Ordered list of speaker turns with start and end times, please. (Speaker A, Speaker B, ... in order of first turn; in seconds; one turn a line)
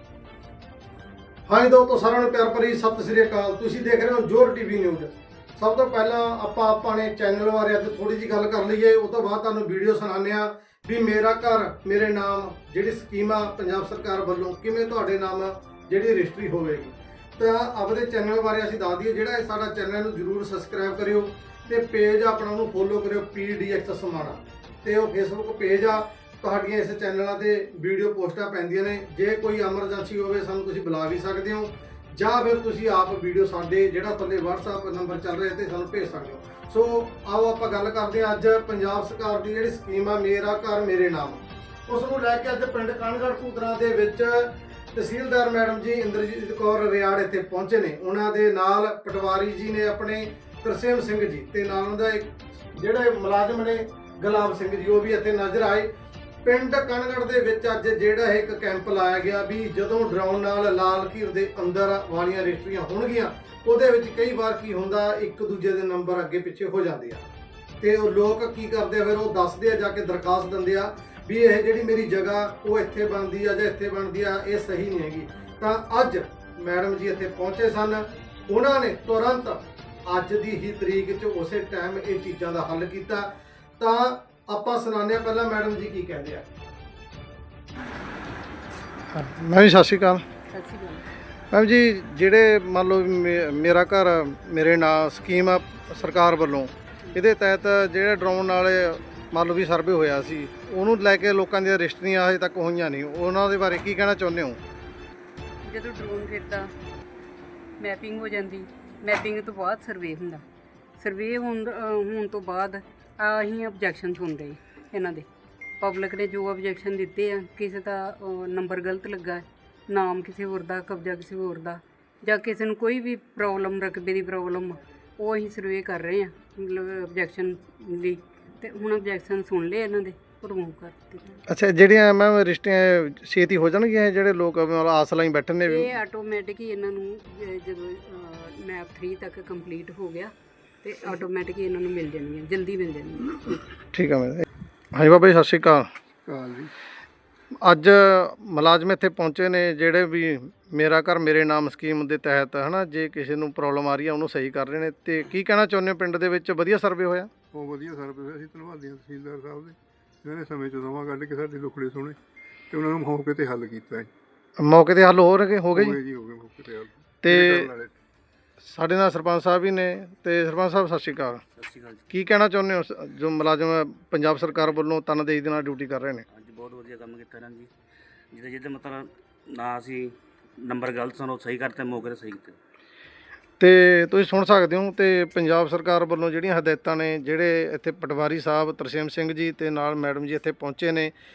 Speaker A: 1.5-55.9
Speaker A: 56.4-67.2
Speaker A: 67.8-83.3
Speaker A: 83.8-86.5
Speaker A: 89.1-90.2
Speaker B: 90.5-91.1
Speaker A: 91.5-104.6
Speaker B: 105.6-106.7
Speaker B: 107.8-110.4
Speaker B: 111.0-115.3
Speaker B: 115.8-131.4
Speaker A: 131.5-135.9
Speaker B: 135.7-140.3
Speaker B: 140.8-143.6
Speaker A: 143.9-145.9
Speaker C: 146.2-146.7
Speaker A: 147.6-157.3
Speaker C: 157.5-162.2
Speaker C: 162.7-164.1
Speaker A: 164.6-166.0
Speaker C: 165.7-167.9
Speaker A: 167.2-167.7
Speaker A: 168.6-171.4
Speaker D: 171.6-172.0
Speaker A: 172.1-176.2
Speaker D: 176.3-177.7
Speaker D: 178.3-182.6
Speaker A: 183.6-191.1